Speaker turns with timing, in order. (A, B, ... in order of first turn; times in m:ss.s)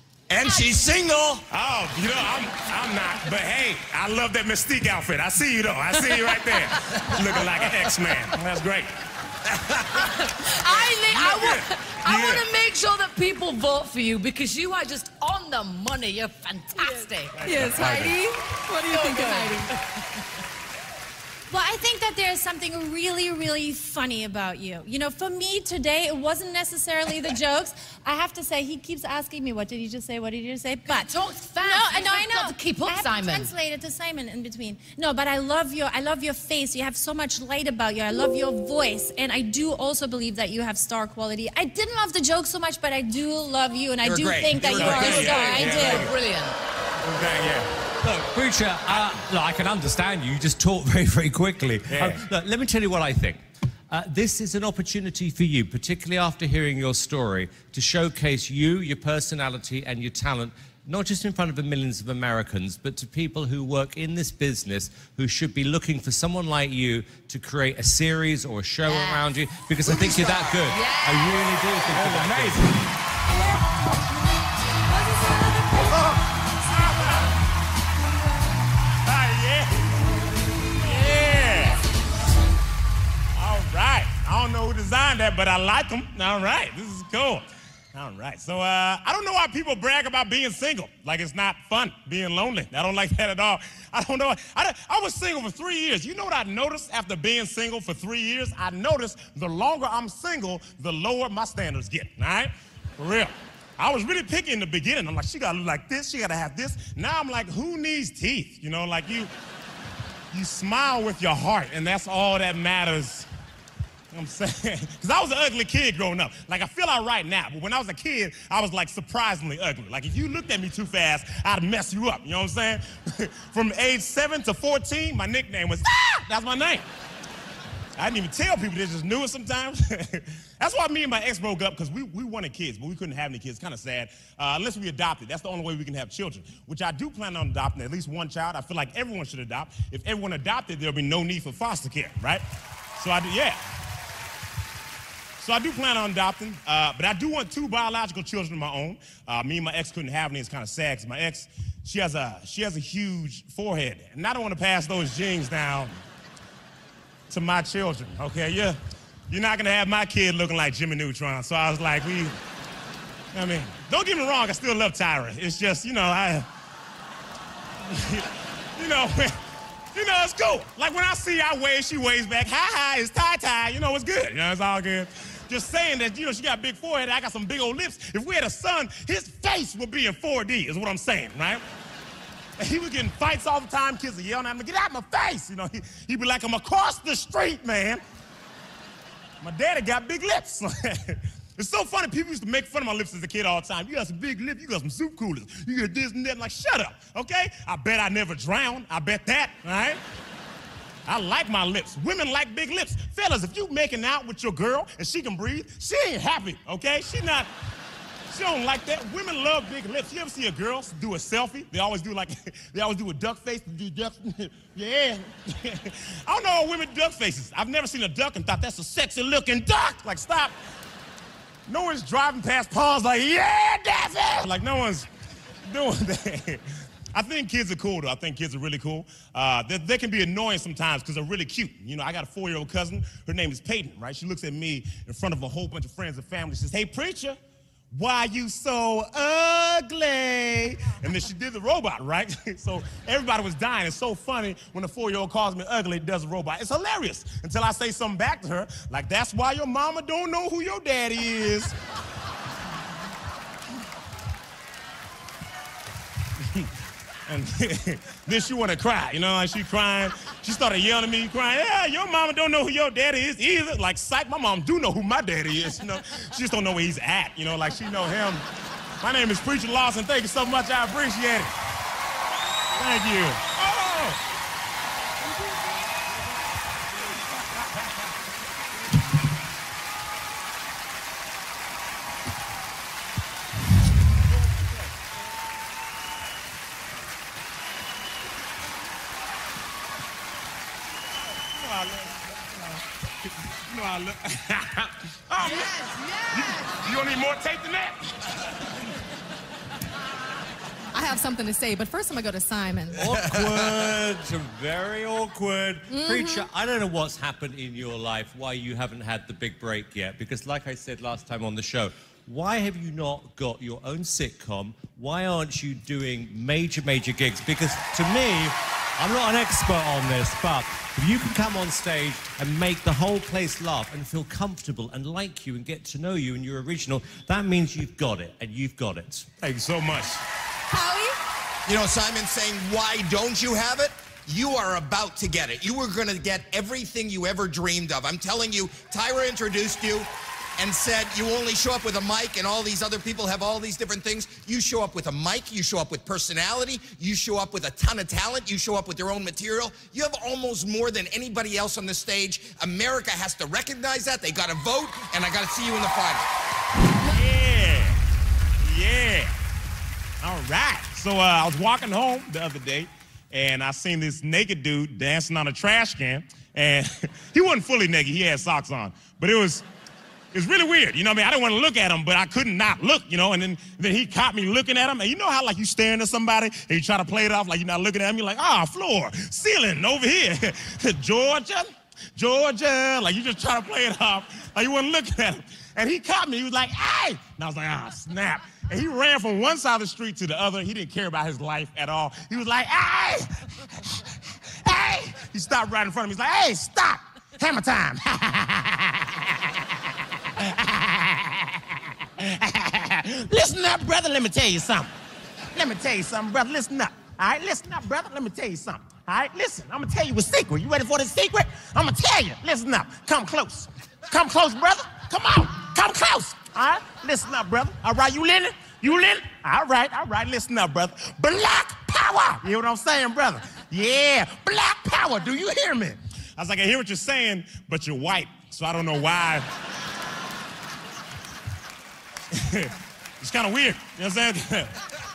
0:00.3-0:01.4 A
0:01.5-0:08.9 B
0:09.9-0:18.1 C
0:11.1-0:12.4 B
0:17.4-0:17.9 B
0:17.4-0:19.7 D
0:17.8-0:18.2 A
0:18.8-0:19.7 C
0:21.5-0:46.1 E
0:30.9-0:33.5 C
0:44.0-0:45.3 A
0:44.6-0:46.1 B
0:44.7-0:46.6 C
0:47.0-0:47.7 B
0:48.0-1:12.8 F
0:51.9-0:52.2 B
1:08.9-1:09.2 C
1:09.8-1:10.7 A
1:10.7-1:11.5 C
1:11.9-1:12.7 B
1:15.0-1:15.9 D
1:16.6-1:17.3 B
1:19.0-1:19.8 B
1:20.8-1:21.8 B
1:23.4-1:49.3 B
1:50.3-1:53.3 B
1:54.1-2:06.9 B
2:08.0-2:22.4 B
2:23.0-2:23.6 B
2:25.4-2:36.0 B
2:37.3-2:38.8 B
2:39.3-2:42.3 B
2:43.3-2:46.5 B
2:47.9-2:49.4 B
2:49.9-3:01.6 B
3:02.6-3:08.0 B
3:09.4-3:20.0 B
3:21.1-3:27.5 B
3:28.3-3:40.6 B
3:41.7-3:45.1 B
3:45.6-3:57.4 B
3:57.9-4:11.7 B
4:17.3-4:28.4 B
4:29.0-4:31.5 B
4:32.8-4:34.2 B
4:51.5-4:52.8 B
4:53.7-4:58.3 B
4:55.4-4:56.8 D
5:00.9-5:03.0 D
5:02.9-5:29.3 F
5:03.3-5:03.8 A
5:05.9-5:06.5 D
5:29.4-5:30.2 B
5:30.7-5:31.2 D
5:31.7-5:56.3 A
5:57.1-5:58.0 B
5:58.6-5:59.3 B
6:00.2-6:09.6 B
6:10.3-6:44.9 B
6:45.5-7:09.5 B
7:12.3-7:14.8 B